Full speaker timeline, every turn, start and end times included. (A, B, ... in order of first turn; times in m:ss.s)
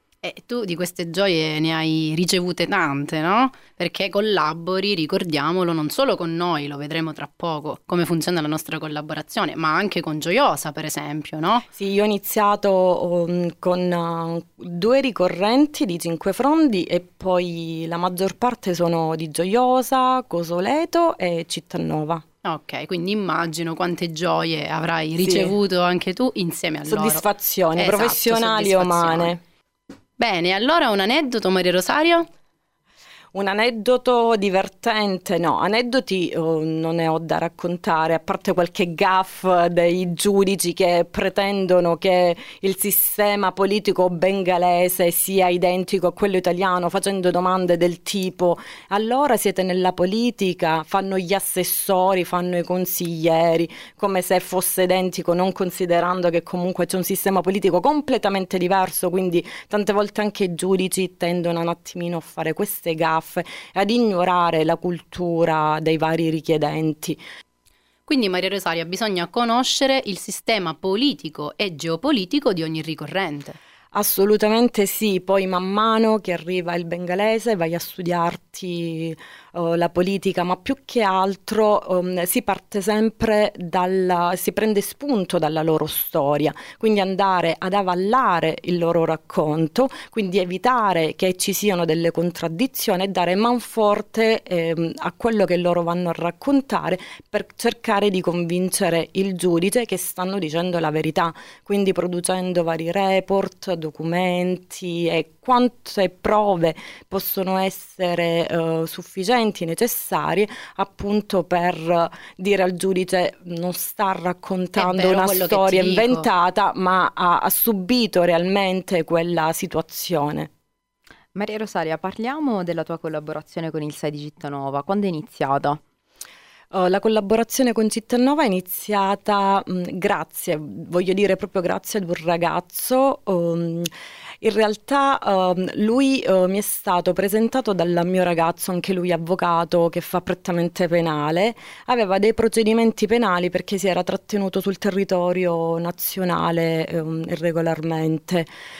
0:00.2-0:11.6 A
0:11.7-0:22.2 B
0:22.4-0:27.2 A
0:25.2-0:25.5 B
0:26.8-0:29.4 B
0:27.8-0:29.4 A
0:30.2-0:32.3 A
0:33.3-1:07.2 B
1:08.1-1:13.6 A
1:13.9-2:00.5 B
1:54.8-1:56.3 A
2:01.3-2:05.8 C
2:06.7-2:13.9 B
2:14.4-2:28.5 B